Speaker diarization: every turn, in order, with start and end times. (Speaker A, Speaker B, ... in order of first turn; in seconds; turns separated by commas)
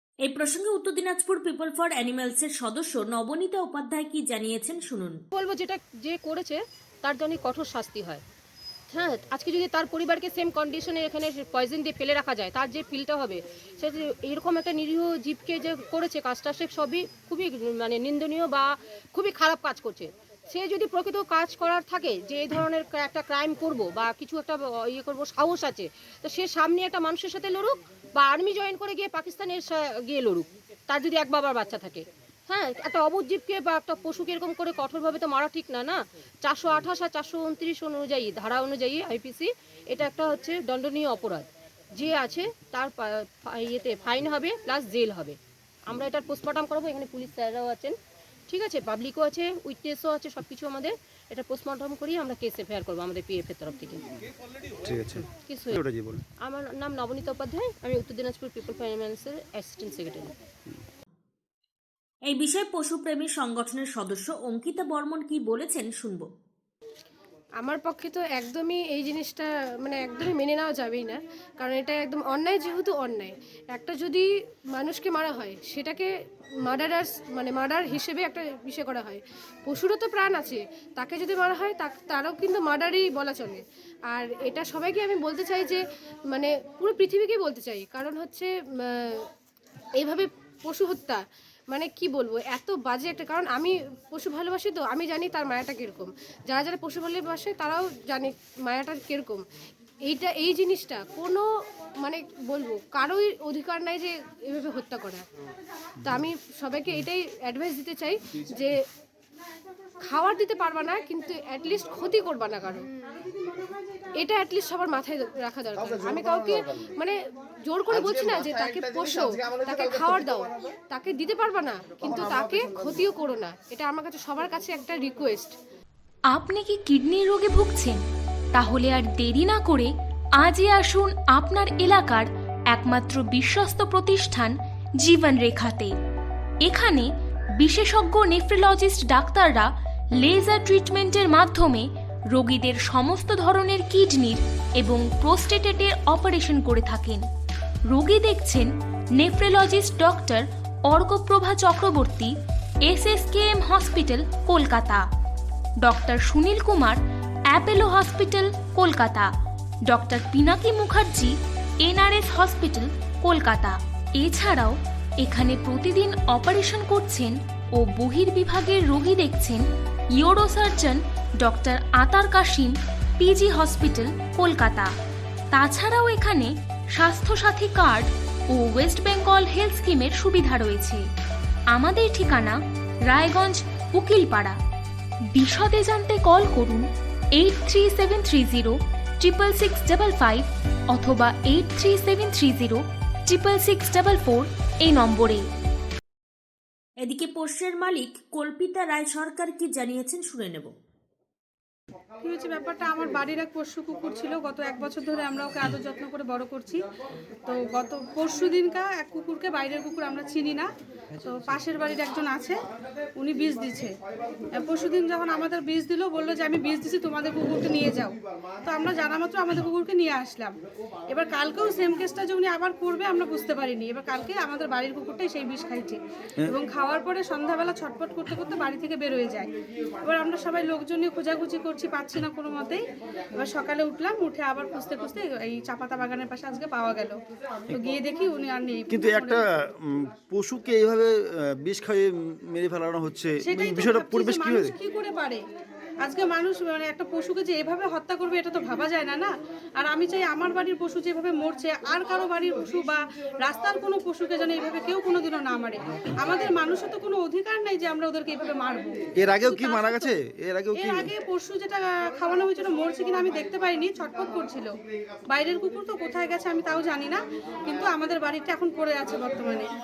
Speaker A: 0.2-5.2, Speaker B: 5.3-8.2, Speaker B: 8.9-48.0, Speaker B: 48.5-54.0, Speaker C: 54.8-56.2, Speaker B: 55.2-55.8, Speaker B: 56.4-60.3, Speaker A: 62.3-66.3, Speaker D: 67.6-76.1, Speaker D: 76.7-85.8, Speaker D: 86.3-89.3, Speaker D: 90.0-99.4, Speaker D: 100.1-101.4, Speaker D: 102.0-105.2, Speaker D: 106.0-108.8, Speaker D: 110.1-112.9, Speaker D: 114.2-117.2, Speaker D: 117.7-125.5, Speaker E: 126.3-128.0, Speaker E: 128.6-135.9, Speaker E: 136.6-139.7, Speaker E: 140.2-147.2, Speaker E: 147.9-152.3, Speaker E: 152.8-155.0, Speaker E: 155.8-157.0, Speaker E: 157.5-159.3, Speaker E: 159.9-169.7, Speaker E: 170.2-174.9, Speaker E: 175.5-181.0, Speaker E: 181.7-184.6, Speaker E: 185.3-195.5, Speaker A: 197.0-200.7, Speaker F: 202.2-206.8, Speaker F: 207.5-210.7, Speaker F: 211.2-212.6, Speaker F: 213.2-213.9, Speaker F: 214.6-220.5, Speaker F: 221.1-229.5, Speaker F: 230.0-232.8, Speaker F: 233.4-237.2, Speaker F: 237.7-239.4, Speaker C: 238.9-244.8, Speaker F: 243.5-245.4, Speaker F: 246.0-260.1, Speaker C: 259.2-261.1, Speaker F: 260.8-264.7, Speaker F: 265.3-269.7